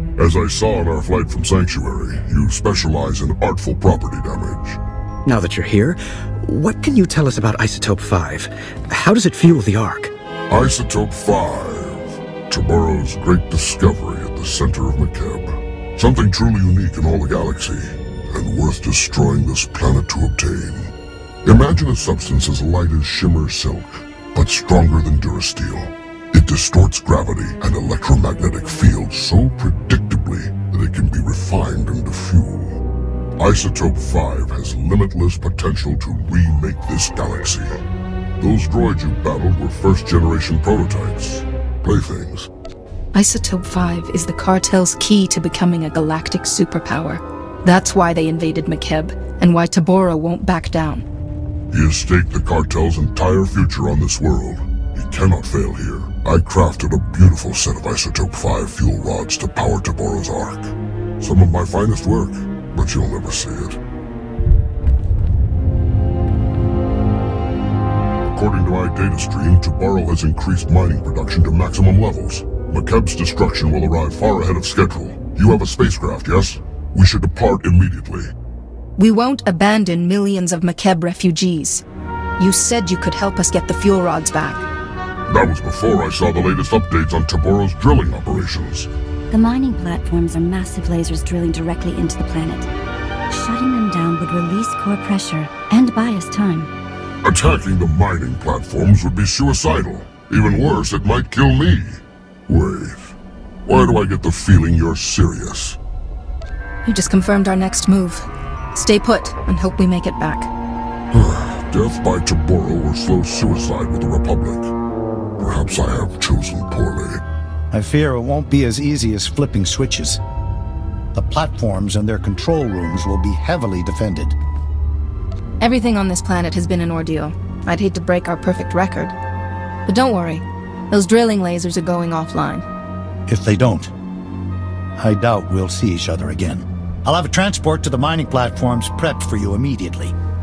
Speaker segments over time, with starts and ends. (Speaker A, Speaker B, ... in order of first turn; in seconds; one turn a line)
Speaker A: 0.2-4.8
Speaker B: 5.3-10.1
Speaker A: 10.5-20.9
Speaker A: 21.4-32.8
Speaker A: 33.4-37.8
Speaker A: 38.4-42.5
Speaker C: 43.1-51.0
Speaker A: 51.7-63.8
Speaker A: 68.3-78.3
Speaker C: 79.0-81.8
Speaker C: 82.4-84.7
Speaker A: 85.3-88.9
Speaker D: 89.3-92.7
Speaker D: 93.3-96.7
Speaker A: 97.2-105.8
Speaker C: 106.8-110.5
Speaker A: 111.1-114.7
Speaker A: 115.4-117.2
Speaker E: 117.7-120.2
Speaker E: 121.1-124.4
Speaker C: 125.6-129.1
Speaker C: 129.9-132.7
Speaker E: 133.3-133.9
Speaker E: 135.0-140.2